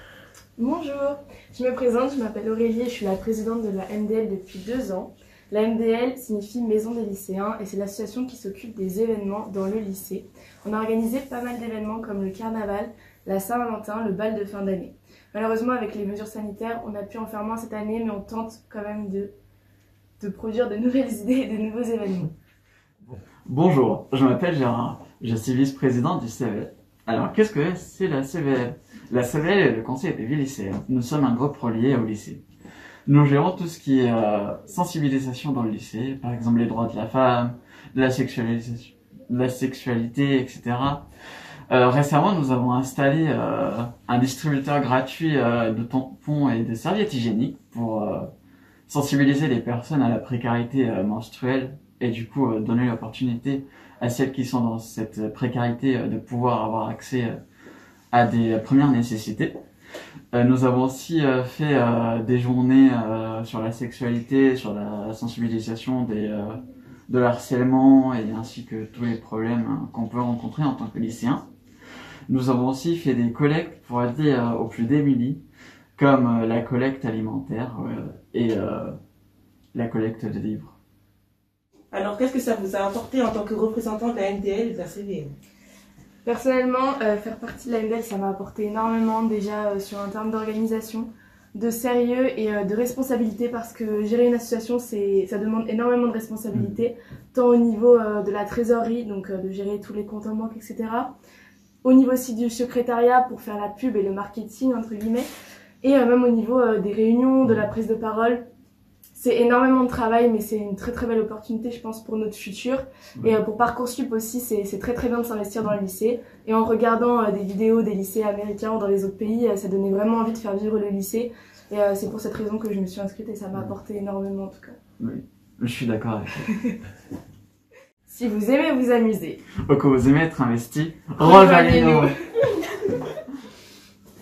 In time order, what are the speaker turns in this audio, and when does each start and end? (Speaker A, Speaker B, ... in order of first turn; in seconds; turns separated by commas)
Speaker A: 0.6-19.3, Speaker A: 20.2-22.3, Speaker B: 23.4-32.4, Speaker B: 33.1-41.1, Speaker B: 41.7-48.3, Speaker B: 48.9-57.4, Speaker B: 58.1-59.5, Speaker B: 60.3-71.4, Speaker B: 72.3-75.4, Speaker B: 76.0-78.9, Speaker B: 79.7-80.8, Speaker C: 81.9-85.3, Speaker A: 86.2-101.1, Speaker A: 101.8-105.3, Speaker A: 105.8-108.4, Speaker A: 109.1-124.8, Speaker B: 125.0-126.5, Speaker A: 126.5-126.8, Speaker A: 128.1-129.4, Speaker B: 129.7-132.1, Speaker A: 131.2-132.5